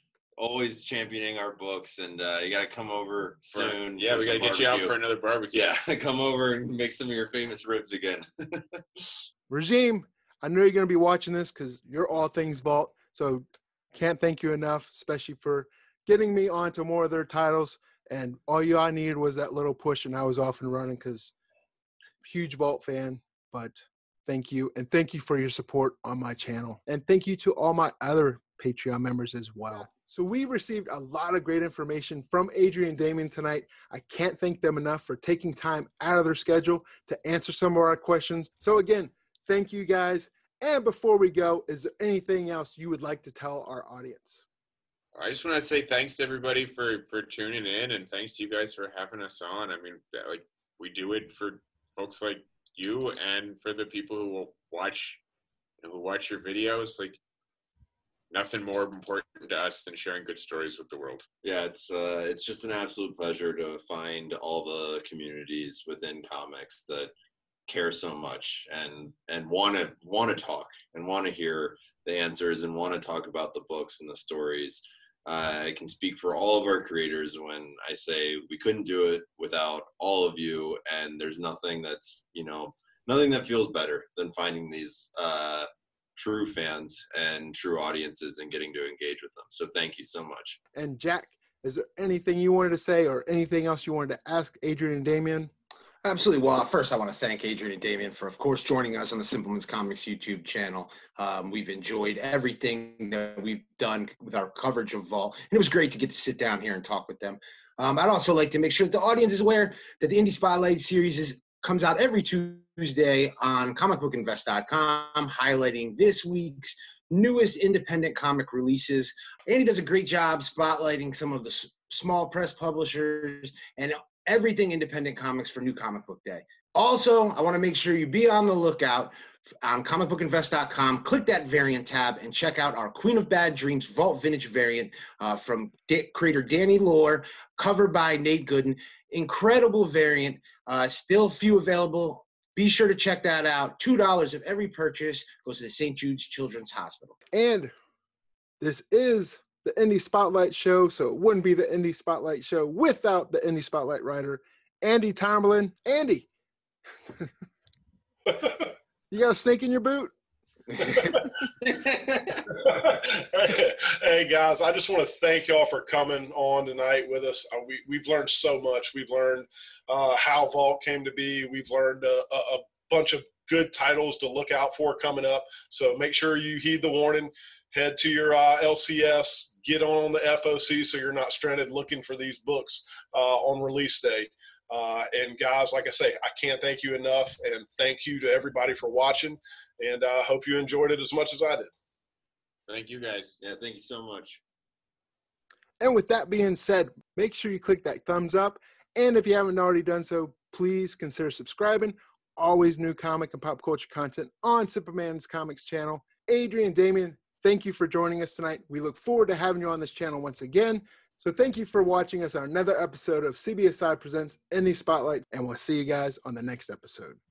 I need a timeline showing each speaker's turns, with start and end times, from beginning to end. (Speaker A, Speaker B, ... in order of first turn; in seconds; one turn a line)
Speaker A: 0.4-4.9
Speaker B: 3.5-5.6
Speaker A: 5.5-9.2
Speaker C: 9.5-21.3
Speaker C: 22.2-44.4
Speaker B: 45.1-55.2
Speaker B: 55.8-57.2
Speaker B: 58.3-61.3
Speaker A: 61.4-67.1
Speaker A: 67.7-90.6
Speaker C: 90.8-95.5
Speaker D: 96.0-147.2
Speaker C: 147.3-147.7
Speaker C: 148.6-156.3
Speaker C: 159.1-160.1
Speaker C: 160.8-161.2
Speaker E: 162.5-191.7
Speaker B: 192.7-193.4
Speaker A: 193.4-194.4
Speaker C: 195.8-217.2